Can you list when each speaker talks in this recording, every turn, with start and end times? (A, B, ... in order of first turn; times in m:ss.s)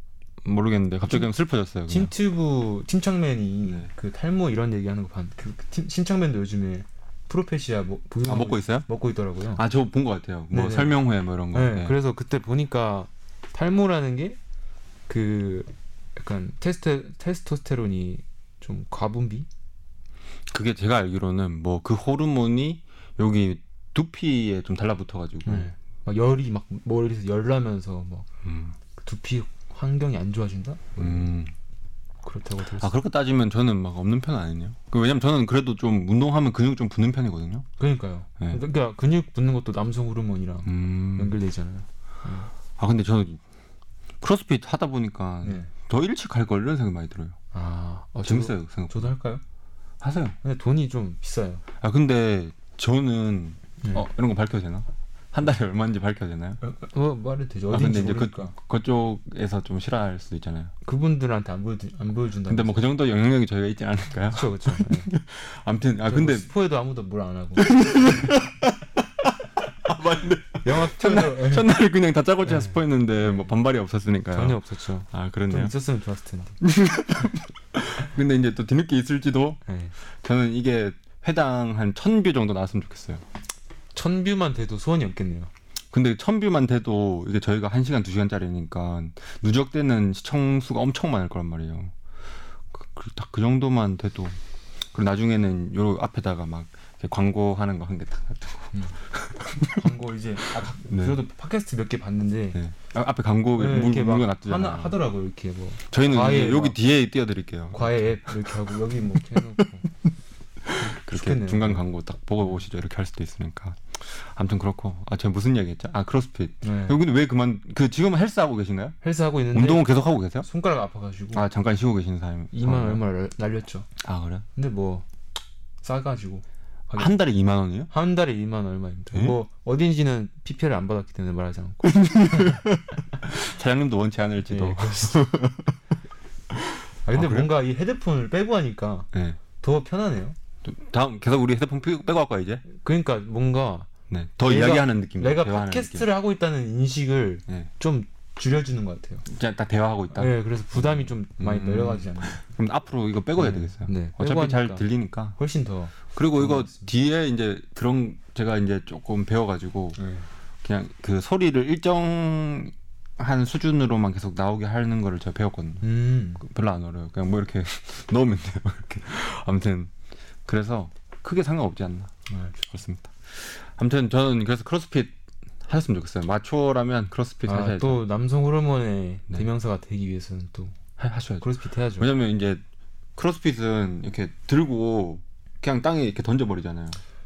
0:00.4-0:02.1 A
0:01.9-0:09.6 B
0:08.2-0:08.9 A
0:09.5-0:12.0 A
0:10.5-0:11.0 B
0:11.5-0:14.4 B
0:15.1-0:19.5 B
0:20.5-0:25.7 A
0:25.4-0:28.3 B
0:28.4-0:28.8 A
0:29.0-0:31.3 B
0:31.0-0:31.5 A
0:32.2-0:32.9 B
0:32.8-0:37.7 A
0:37.8-0:42.5 B
0:40.7-0:41.4 A
0:42.8-0:43.4 A
0:44.2-0:47.4 A
0:45.4-0:45.7 B
0:47.5-0:49.4 B
0:48.2-0:49.1 A
0:50.0-0:50.4 A
0:50.4-0:51.6 B
0:51.8-0:56.6 A
0:53.8-0:54.1 B
0:56.6-0:58.5 B
0:57.7-1:00.7 A
1:00.8-1:02.9 B
1:02.5-1:06.5 A
1:04.3-1:05.1 B
1:06.1-1:08.3 B
1:07.6-1:14.6 A
1:10.6-1:11.7 B
1:12.4-1:13.5 B
1:14.3-1:16.6 B
1:15.1-1:15.7 A
1:16.6-1:19.6 A
1:19.7-1:19.9 B
1:20.2-1:23.2 A
1:23.9-1:25.5 B
1:25.9-1:31.9 A
1:32.7-1:34.4 A
1:34.9-1:39.8 A
1:38.7-1:39.0 B
1:39.6-1:42.6 B
1:40.9-1:41.2 A
1:42.6-1:45.0 A
1:43.6-1:46.8 B
1:45.9-1:48.7 A
1:47.7-1:49.9 B
1:50.6-1:59.0 A
1:50.8-1:51.8 B
1:56.6-1:57.0 B
1:59.0-1:59.9 B
1:59.5-2:00.5 A
2:00.4-2:01.4 B
2:01.3-2:03.0 A
2:02.5-2:03.9 B
2:04.0-2:04.4 A
2:04.6-2:05.1 B
2:05.8-2:07.2 B
2:07.0-2:07.9 A
2:07.9-2:12.6 B
2:11.8-2:15.8 A
2:14.5-2:15.2 B
2:16.5-2:17.5 A
2:17.1-2:19.1 B
2:19.1-2:19.4 A
2:19.6-2:20.4 B
2:20.6-2:22.7 A
2:22.7-2:23.9 B
2:24.1-2:26.1 A
2:24.4-2:29.2 B
2:29.2-2:35.4 A
2:30.1-2:32.4 B
2:33.4-2:36.9 B
2:36.1-2:40.0 A
2:40.0-2:40.3 B
2:40.6-2:45.8 A
2:45.8-2:46.4 B
2:46.4-2:49.9 A
2:50.5-2:52.1 A
2:52.3-2:52.6 B
2:52.7-2:55.1 A
2:55.7-2:58.0 A
2:57.4-3:00.8 B
3:01.0-3:02.6 A
3:01.4-3:02.1 B
3:03.2-3:07.0 A